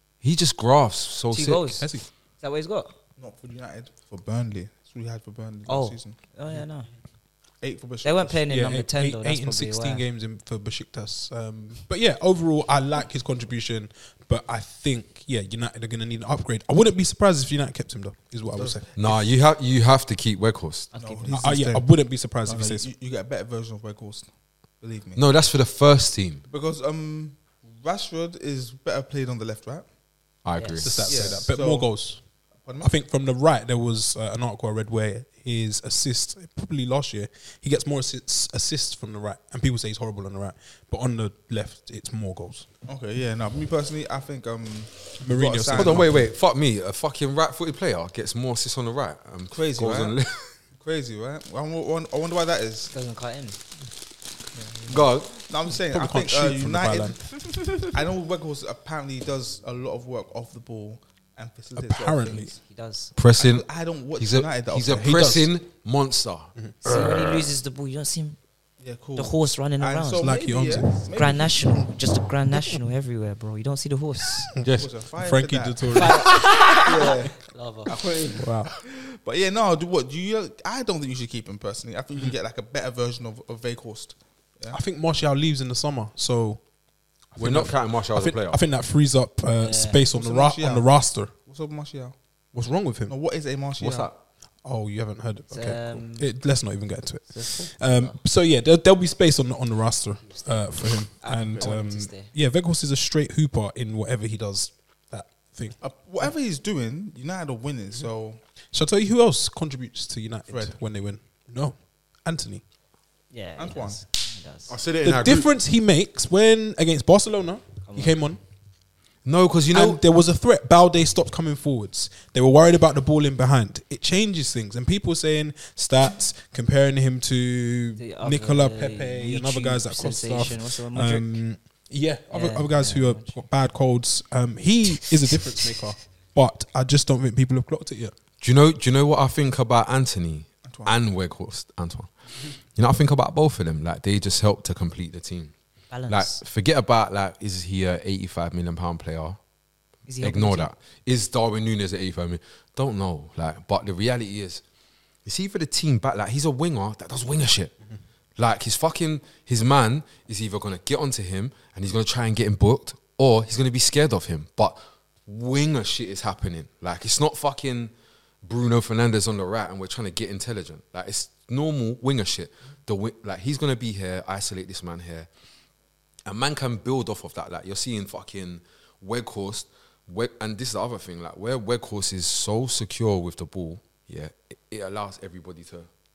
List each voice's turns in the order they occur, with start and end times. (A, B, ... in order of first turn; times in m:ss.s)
0:00.2-0:01.8 A
0:01.3-0:01.9 B
0:01.8-0:02.1 C
0:02.4-0:02.9 B
0:03.2-0:06.2 D
0:05.7-0:06.9 B
0:07.6-0:08.4 D
0:08.0-0:10.0 B
0:08.5-0:19.1 C
0:18.6-0:18.9 D
0:19.0-0:20.9 A
0:20.9-0:21.4 B
0:21.0-0:21.9 D
0:21.3-0:22.9 C
0:22.4-0:24.3 D
0:24.8-0:25.2 D
0:25.2-0:26.4 A
0:26.5-0:29.8 D
0:30.4-0:31.4 A
0:30.6-0:30.9 B
0:30.8-0:32.2 C
0:31.0-0:31.9 D
0:32.6-0:32.9 D
0:32.8-0:42.6 C
0:42.8-0:46.1 D
0:45.2-0:46.3 C
0:45.7-0:50.6 A
0:49.5-0:50.2 D
0:50.8-0:52.9 D
0:52.9-0:53.6 B
0:54.5-0:57.3 D
0:54.9-0:55.3 A
0:55.7-0:57.2 C
0:57.8-1:02.6 D
1:01.7-1:02.5 C
1:02.6-1:03.1 B
1:03.1-1:07.4 A
1:03.4-1:05.2 D
1:04.9-1:05.5 C
1:06.8-1:08.4 B
1:08.8-1:11.5 D
1:09.2-1:10.3 B
1:10.2-1:11.0 C
1:11.1-1:14.5 B
1:14.5-1:16.3 C
1:14.6-1:14.9 A
1:14.7-1:24.8 D
1:15.9-1:18.0 B
1:18.4-1:18.7 C
1:24.7-1:26.6 C
1:27.3-1:31.3 C
1:27.4-1:28.6 A
1:29.6-1:30.0 B
1:30.1-1:32.2 D
1:32.5-1:33.1 C
1:33.1-1:34.1 D
1:33.8-1:34.2 A
1:34.6-1:45.8 C
1:35.5-1:36.3 B
1:37.3-1:38.2 B
1:41.2-1:42.3 B
1:45.8-1:48.4 D
1:48.7-1:52.6 C
1:50.5-1:50.8 D
1:53.3-1:54.7 B
1:53.6-1:54.0 D
1:54.7-1:55.5 A
1:55.0-1:58.4 C
1:57.9-1:58.2 B
1:59.2-2:00.0 A
1:59.7-2:18.1 C
2:08.0-2:11.4 B
2:12.3-2:13.4 B
2:18.4-2:22.1 A
2:20.6-2:20.9 D
2:22.7-2:25.5 A
2:25.9-2:26.4 B
2:26.1-2:29.4 A
2:30.1-2:30.7 B
2:30.2-2:34.6 A
2:35.2-2:37.7 A
2:38.4-2:47.9 A
2:48.4-2:55.3 A
2:56.2-3:05.9 A